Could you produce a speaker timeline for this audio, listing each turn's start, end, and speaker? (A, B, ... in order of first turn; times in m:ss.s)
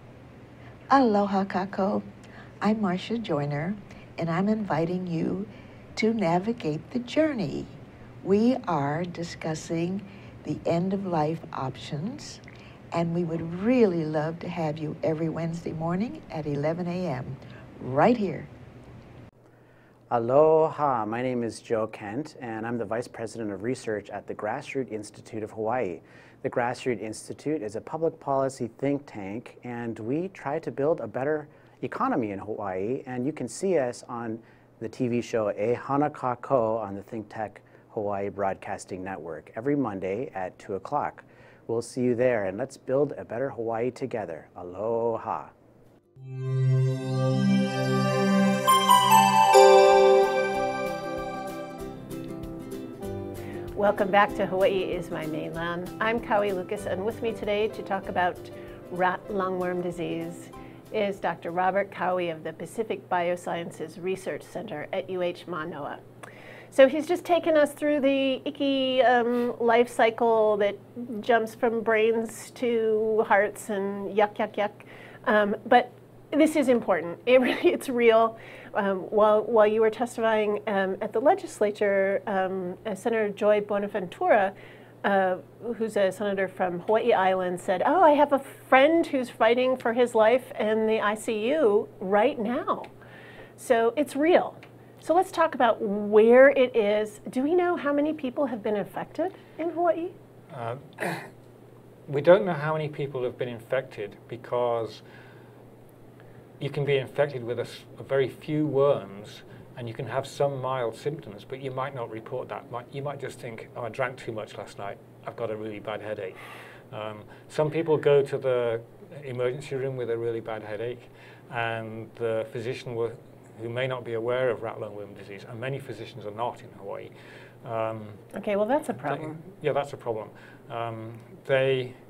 0:00.9-0:02.0 A
0:02.6-0:12.4 A
0:12.9-0:18.5 A
0:20.1-0:45.5 B
0:53.8-1:06.0 C
1:06.7-1:32.9 C
1:33.6-1:40.1 C
1:40.5-1:41.3 D
1:42.1-1:45.0 D
1:46.6-1:56.4 D
1:56.9-2:07.1 D
2:07.6-2:08.2 D
2:08.3-2:09.4 C
2:09.0-2:12.0 D